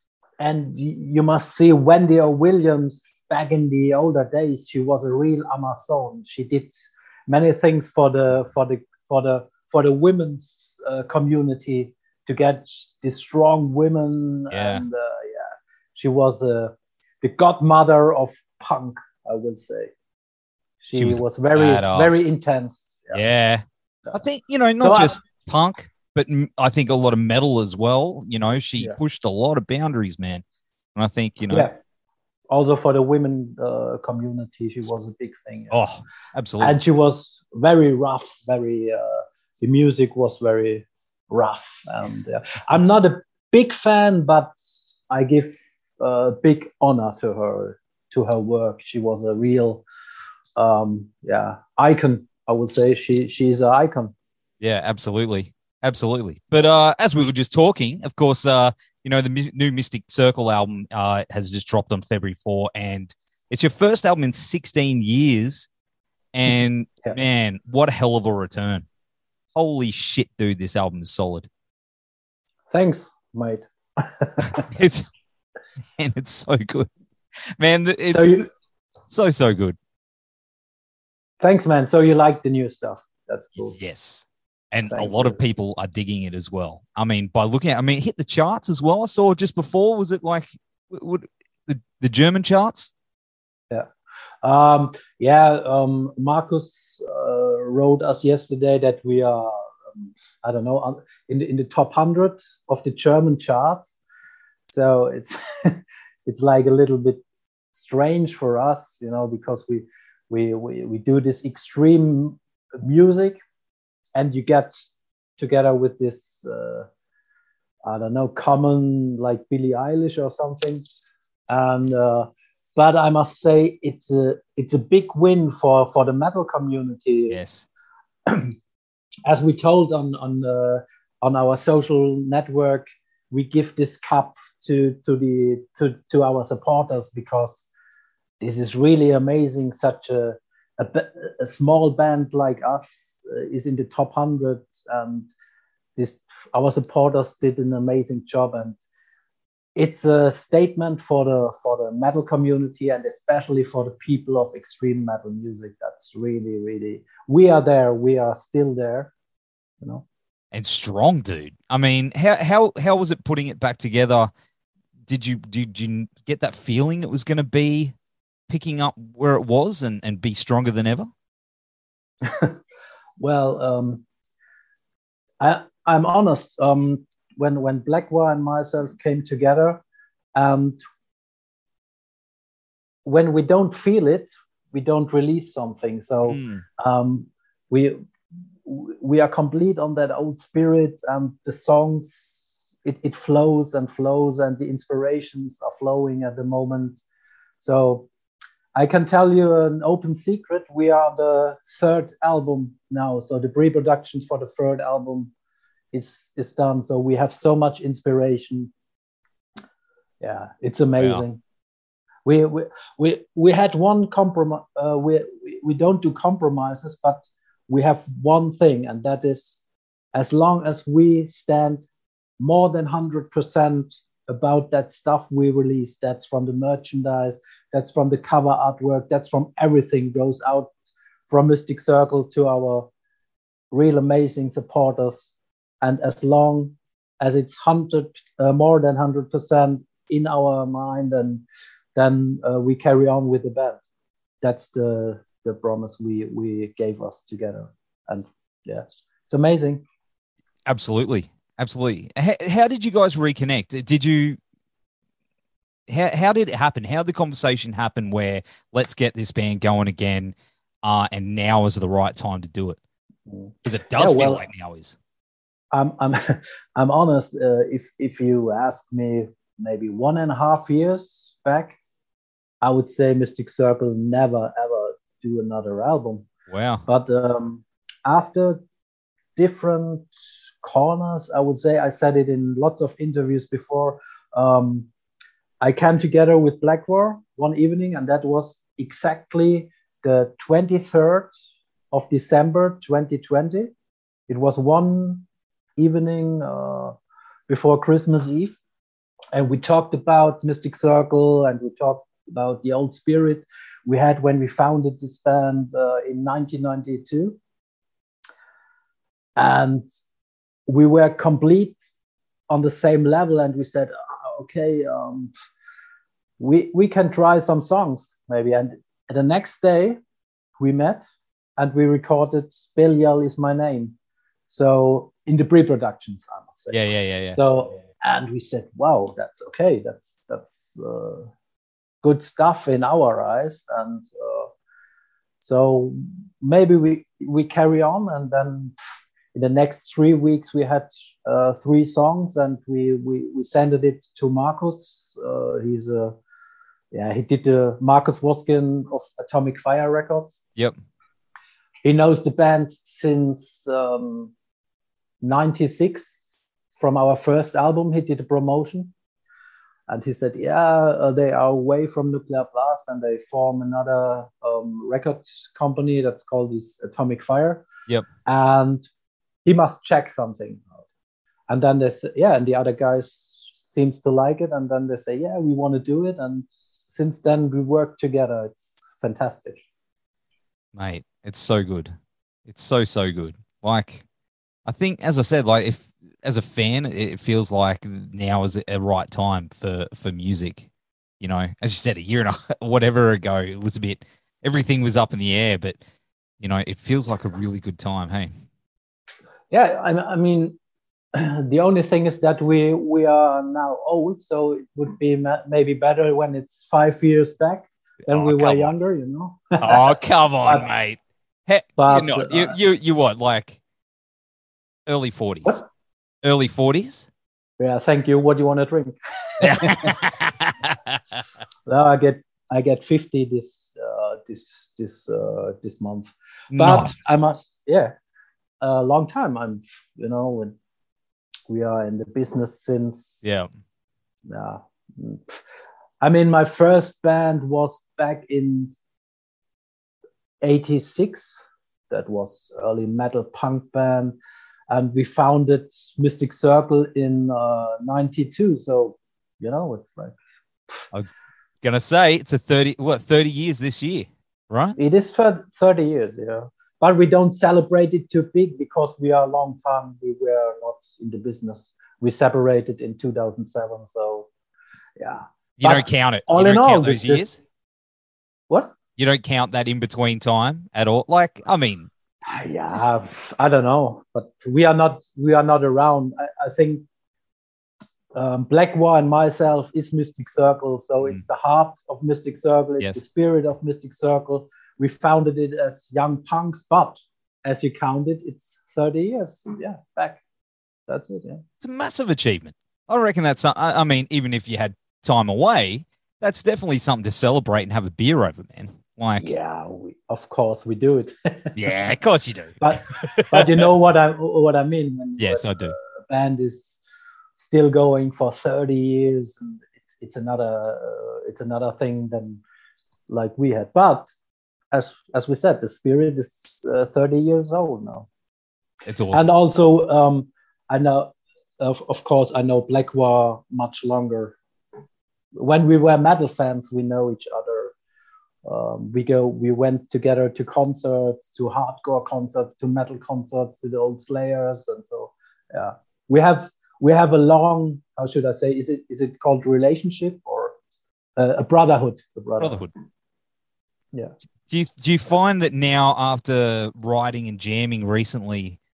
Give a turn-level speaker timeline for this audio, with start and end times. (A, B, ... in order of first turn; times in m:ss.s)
0:00.4-0:06.7 A
0:07.3-0:19.9 A
0:14.5-0:14.8 B
0:20.8-0:23.2 A
0:20.9-0:22.2 B
0:23.1-0:30.4 B
0:24.8-0:25.2 A
0:30.9-0:31.7 B
0:31.5-0:31.8 A
0:32.5-0:35.8 A
0:35.7-0:36.8 B
0:36.6-0:44.5 A
0:45.1-0:49.8 A
0:50.6-0:54.1 A
0:54.6-1:05.7 B
1:06.3-1:08.8 B
1:09.5-1:11.5 B
1:12.7-1:14.7 A
1:14.4-1:15.1 B
1:16.0-1:16.9 B
1:17.6-1:18.5 B
1:18.0-1:18.5 A
1:19.1-1:19.8 B
1:21.4-1:23.8 A
1:23.7-1:32.9 B
1:24.9-1:25.4 A
1:34.4-1:44.0 A
1:44.7-1:47.2 A
1:47.7-1:53.4 A
1:54.2-1:54.9 A
1:55.4-1:56.9 A
1:57.8-2:00.8 A
2:01.5-2:07.4 A
2:07.3-2:07.6 B
2:08.2-2:08.5 A
2:09.3-2:17.7 A
2:18.4-2:25.3 A
2:26.0-2:28.8 A
2:29.8-2:39.1 A
2:40.5-2:44.3 B
2:45.1-2:47.9 B
2:48.5-2:51.1 B
2:52.2-2:52.5 A
2:53.2-2:54.0 A
2:55.4-2:59.8 A
3:00.3-3:00.8 A
3:03.0-3:08.0 A
3:06.2-3:06.6 B
3:08.6-3:17.0 A
3:17.6-3:18.1 A
3:18.7-3:25.3 A
3:25.9-3:28.7 A
3:30.2-3:31.4 A
3:31.0-3:31.2 B
3:32.2-3:41.8 A
3:42.4-3:50.7 A
3:51.3-3:52.9 A
3:53.7-4:01.4 A
4:01.9-4:03.8 A
4:04.4-4:09.8 A
4:10.6-4:14.4 B
4:15.9-4:22.8 B
4:23.3-4:24.4 A
4:23.6-4:25.0 B
4:25.7-4:31.8 A
4:32.6-4:36.3 A
4:36.5-4:36.8 B
4:36.8-4:38.6 A
4:39.4-4:40.1 A
4:40.6-4:44.9 A
4:45.6-4:51.3 A
4:51.9-4:53.7 A
4:54.3-4:55.2 A
4:55.8-4:56.9 A
4:57.5-4:58.6 A
4:59.3-5:07.4 A
5:09.4-5:09.8 A
5:10.7-5:11.8 A
5:12.5-5:15.3 A
5:16.4-5:20.0 A
5:20.6-5:21.0 A
5:21.6-5:23.9 A
5:24.5-5:26.8 A
5:26.7-5:27.4 B
5:27.3-5:31.3 A
5:32.0-5:34.5 A
5:35.4-5:38.8 A
5:39.3-5:46.2 A
5:46.9-5:50.4 A
5:51.8-5:54.3 A
5:55.2-5:56.2 A
5:56.8-5:58.9 A
5:59.9-6:07.6 A
6:08.2-6:08.9 A
6:09.4-6:10.8 A
6:11.5-6:19.6 A
6:20.7-6:21.9 B
6:22.4-6:24.0 B
6:24.6-6:30.7 B
6:31.2-6:35.8 B
6:36.4-6:38.4 B
6:39.5-6:40.6 A
6:41.1-6:50.6 A
6:48.1-6:48.7 B
6:49.6-6:53.6 B
6:51.8-6:52.6 A
6:54.8-6:55.6 B
6:56.2-6:57.1 B
6:57.6-7:00.1 A
6:59.4-7:01.0 B
7:01.6-7:07.9 A
7:06.5-7:06.9 B
7:08.6-7:10.5 A
7:11.5-7:13.2 A
7:13.2-7:13.5 B
7:14.3-7:15.4 A
7:16.0-7:18.7 A
7:20.4-7:24.1 A
7:24.7-7:30.2 A
7:31.6-7:34.8 B
7:34.8-7:44.3 A
7:45.0-7:47.2 A
7:45.6-7:47.4 B
7:48.5-7:48.7 A
7:49.0-7:51.9 B
7:52.2-7:56.8 A
7:58.1-8:10.2 A
8:10.9-8:11.4 A
8:11.6-8:19.3 B
8:19.2-8:21.6 A
8:21.5-8:23.6 B
8:22.6-8:26.8 A
8:25.2-8:25.8 B
8:27.4-8:32.4 A
8:33.1-8:34.1 A
8:34.7-8:38.1 A
8:38.8-8:39.3 B
8:39.1-8:44.4 A
8:45.3-8:47.7 A
8:48.4-9:00.5 A
9:01.2-9:02.7 A
9:02.4-9:02.7 B
9:04.5-9:08.6 B